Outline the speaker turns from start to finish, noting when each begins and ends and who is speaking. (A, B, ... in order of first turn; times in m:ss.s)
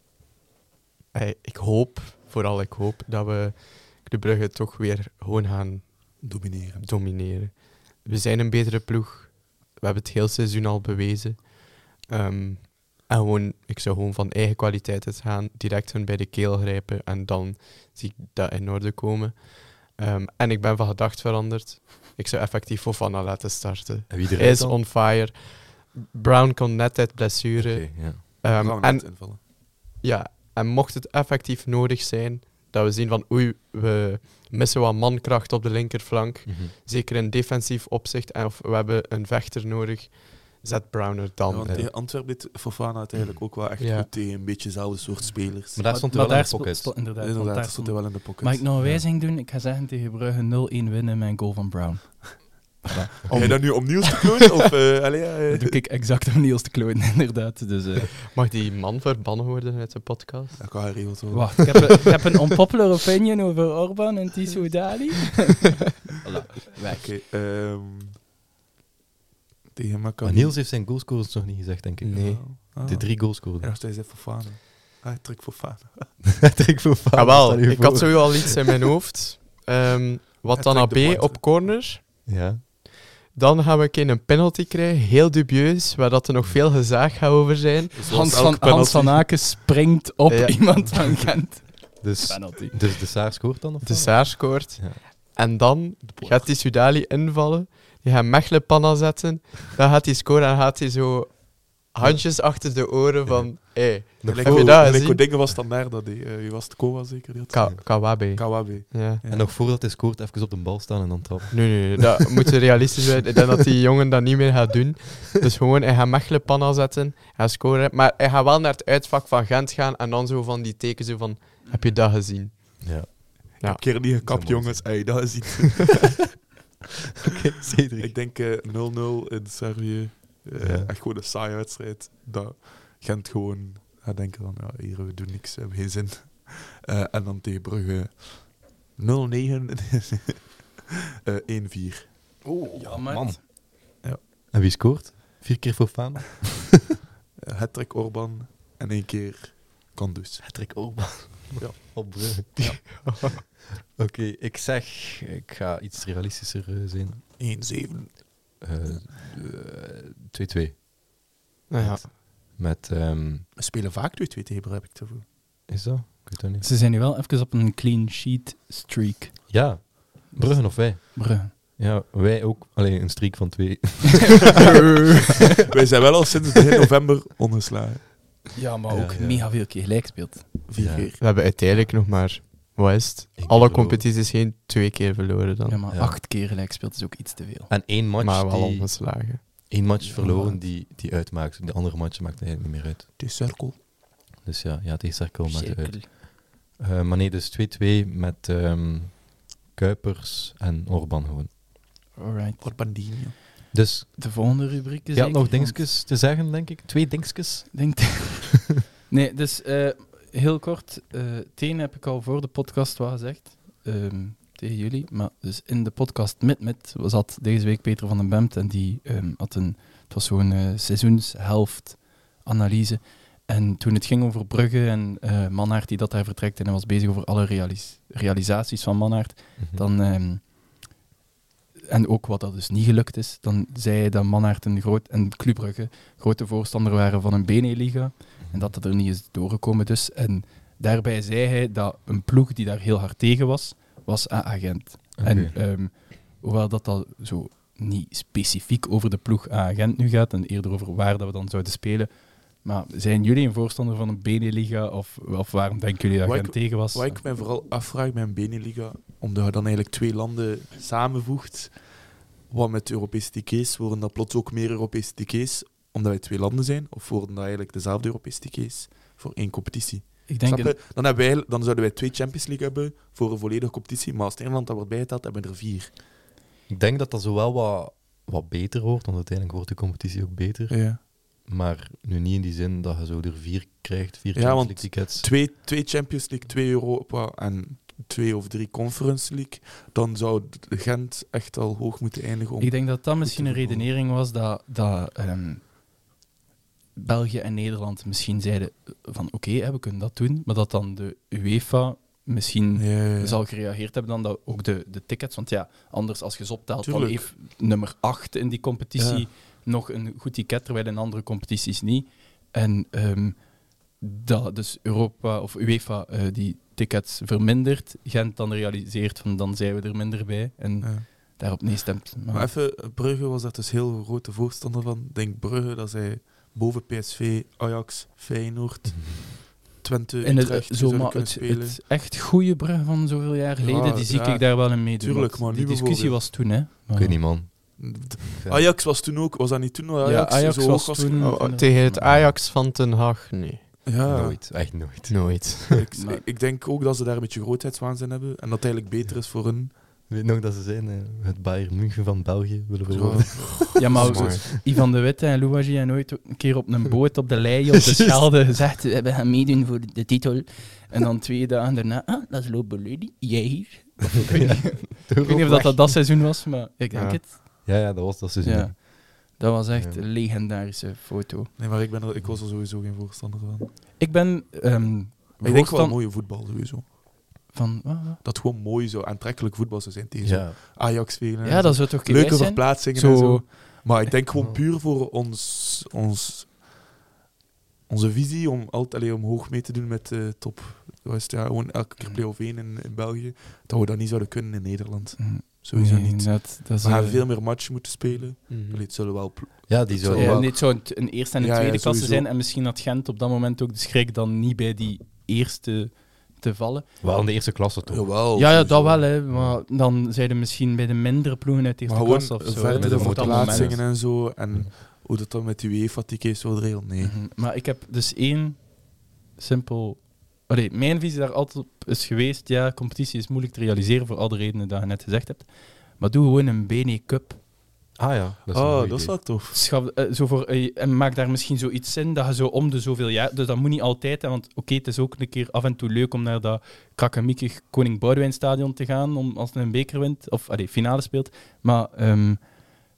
0:01.1-0:41.9 A
0:06.2-0:06.9 B
0:24.1-0:24.8 C
0:27.6-0:28.4 C
0:28.6-0:29.4 B
0:36.5-0:36.7 C
0:41.5-0:45.9 B
0:41.6-0:41.9 C
0:43.8-0:44.1 A
0:45.7-0:46.9 C
0:45.8-0:53.9 D
0:47.2-0:48.6 B
0:53.3-0:53.7 A
0:53.3-0:55.8 B
0:53.3-0:53.6 C
0:55.5-0:58.2 D
0:58.3-1:00.9 A
1:00.6-1:01.9 B
1:01.3-1:07.1 D
1:06.9-1:08.2 B
1:09.7-1:10.6 B
1:10.2-1:13.7 C
1:12.0-1:12.4 A
1:12.1-1:16.2 B
1:16.4-1:18.5 C
1:17.1-1:22.0 A
1:20.5-1:21.4 B
1:22.2-1:22.6 C
1:22.9-1:28.2 A
1:27.9-1:29.3 B
1:28.1-1:32.8 D
1:30.3-1:30.8 A
1:32.0-1:35.0 C
1:33.8-1:45.2 A
1:42.0-1:42.6 C
1:43.2-1:44.9 C
1:44.2-1:49.4 B
1:47.5-1:49.2 A
1:49.2-1:52.2 C
1:51.5-2:03.8 A
2:02.8-2:03.6 C
2:03.6-2:06.2 B
2:04.2-2:05.4 C
2:07.3-2:08.1 C
2:08.0-2:22.1 B
2:10.6-2:10.9 C
2:22.4-2:23.5 C
2:22.7-2:23.4 D
2:24.5-2:26.8 C
2:27.5-2:32.8 B
2:30.4-2:37.2 C
2:32.6-2:33.4 A
2:37.4-2:38.9 B
2:38.6-2:43.5 C
2:41.7-2:42.1 A
2:43.6-2:45.2 B
2:45.7-2:46.6 C
2:46.6-2:49.5 D
2:49.5-2:55.1 C
2:50.4-2:51.5 D
2:55.7-2:58.4 B
2:58.5-3:00.6 D
2:58.9-2:59.5 C
3:00.7-3:01.2 B
3:00.8-3:01.1 C
3:01.2-3:05.8 A
3:03.4-3:04.1 C
3:05.6-3:07.7 D
3:05.9-3:06.2 C
3:07.7-3:13.2 C
3:08.2-3:09.4 A
3:10.0-3:10.6 D
3:13.2-3:13.8 B
3:14.4-3:21.5 C
3:15.4-3:16.1 D
3:22.1-3:23.1 D
3:22.6-3:23.3 B
3:23.7-3:28.3 C
3:24.2-3:25.9 D
3:27.7-3:50.8 D
3:49.6-3:49.8 C
3:51.9-4:17.2 D
3:58.4-3:58.7 C
4:05.2-4:05.5 C
4:16.2-4:35.9 B
4:30.3-4:30.8 D
4:36.7-4:45.3 C
4:40.7-4:41.0 B
4:44.3-4:53.9 B
4:52.6-4:55.8 D
4:56.9-5:22.5 D
5:02.8-5:03.4 B
5:06.8-5:07.3 B
5:09.0-5:09.3 B
5:20.8-5:21.1 B
5:22.3-5:31.8 B
5:30.2-5:37.2 D
5:33.6-5:36.2 B
5:36.9-5:38.7 C
5:37.8-5:41.4 B
5:40.0-5:42.0 D
5:41.2-5:43.7 A
5:41.9-5:42.4 C
5:43.8-5:44.4 B
5:44.0-5:45.6 C
5:45.1-5:45.8 A
5:45.7-5:49.8 B
5:45.9-5:46.2 D
5:50.1-5:54.4 C
5:52.9-5:54.1 B
5:53.8-6:07.7 D
5:53.8-5:54.4 A
6:04.3-6:06.0 C
6:06.9-6:07.2 A
6:07.6-6:08.9 C
6:08.4-6:11.5 D
6:09.7-6:10.0 C
6:11.6-6:13.7 B
6:14.0-6:16.0 D
6:15.4-6:16.9 B
6:17.5-6:18.2 D
6:18.2-6:26.6 B
6:20.2-6:20.6 C
6:21.4-6:24.1 D
6:24.3-6:24.6 C
6:27.9-6:42.3 B
6:35.2-6:37.3 D
6:38.5-6:38.8 A
6:39.7-6:40.5 C
6:40.1-6:46.9 D
6:47.0-6:48.2 C
6:47.9-6:49.0 B
6:48.3-6:53.8 D
6:49.3-6:49.6 C
6:51.9-6:57.2 B
6:52.7-6:54.7 C
6:57.0-7:07.4 D
7:08.0-7:09.2 C
7:08.5-7:09.6 B
7:09.5-7:22.7 D